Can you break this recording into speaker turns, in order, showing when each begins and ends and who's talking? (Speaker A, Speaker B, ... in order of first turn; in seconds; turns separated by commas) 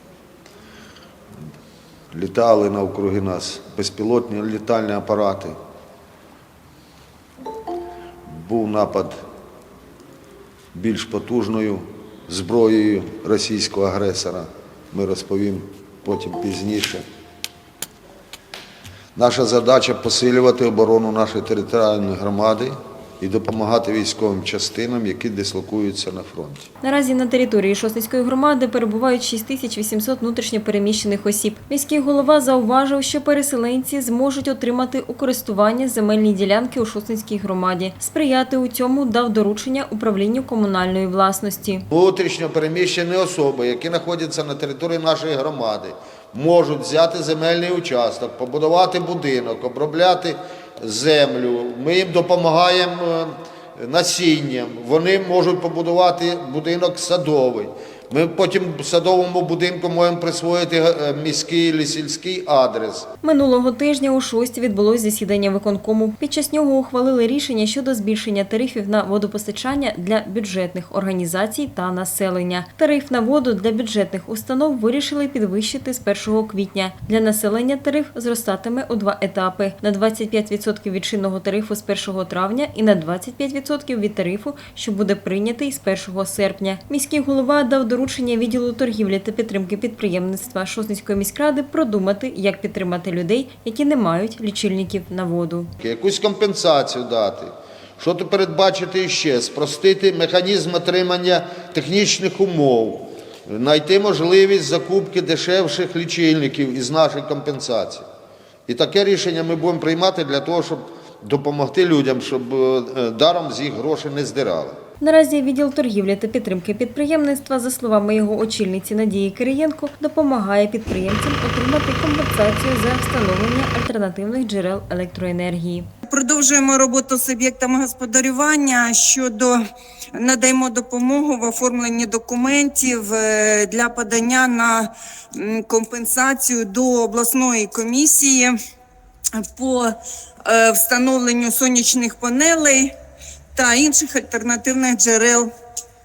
Speaker A: 2.1-5.5, Speaker A: 8.3-9.2, Speaker A: 10.7-17.0, Speaker A: 19.1-26.7, Speaker B: 26.8-41.9, Speaker A: 41.9-63.1, Speaker B: 63.2-95.7, Speaker A: 95.8-108.0, Speaker A: 108.7-114.8, Speaker B: 115.0-125.9, Speaker C: 126.1-129.6, Speaker C: 130.1-138.5, Speaker C: 139.3-142.9, Speaker C: 143.5-145.5